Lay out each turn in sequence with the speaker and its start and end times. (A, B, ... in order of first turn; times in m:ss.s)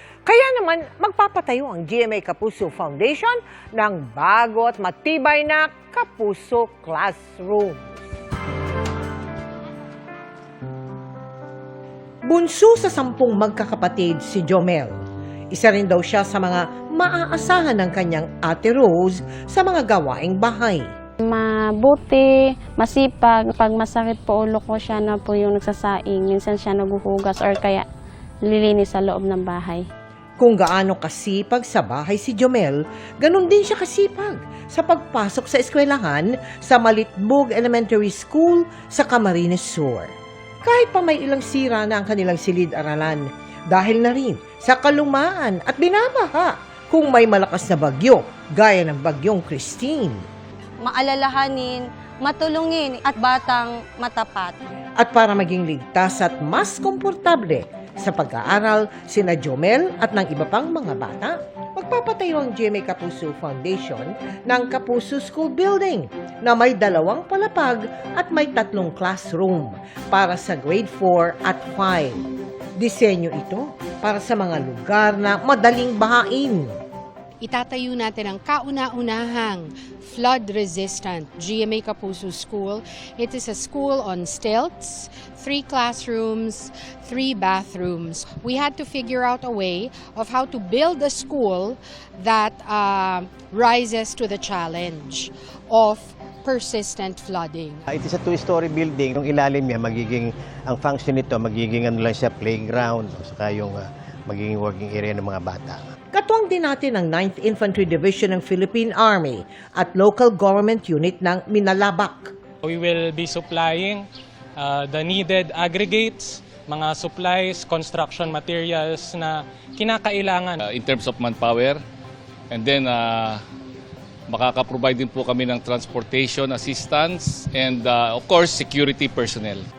0:00.2-0:08.0 A
0:12.2-0:15.0 A
0:15.5-0:20.8 A
0:21.2-0:27.8 B
0:28.4-0:29.8 B
0:30.4-0:50.2 A
0:50.8-0:54.6 C
0:55.0-1:12.2 A
1:12.8-1:16.8 A
1:17.4-1:37.8 D
1:37.9-1:45.8 E
1:46.1-1:52.3 A
1:52.6-2:00.6 F
2:00.6-2:01.8 G
2:02.5-2:03.4 G
2:04.3-2:09.6 G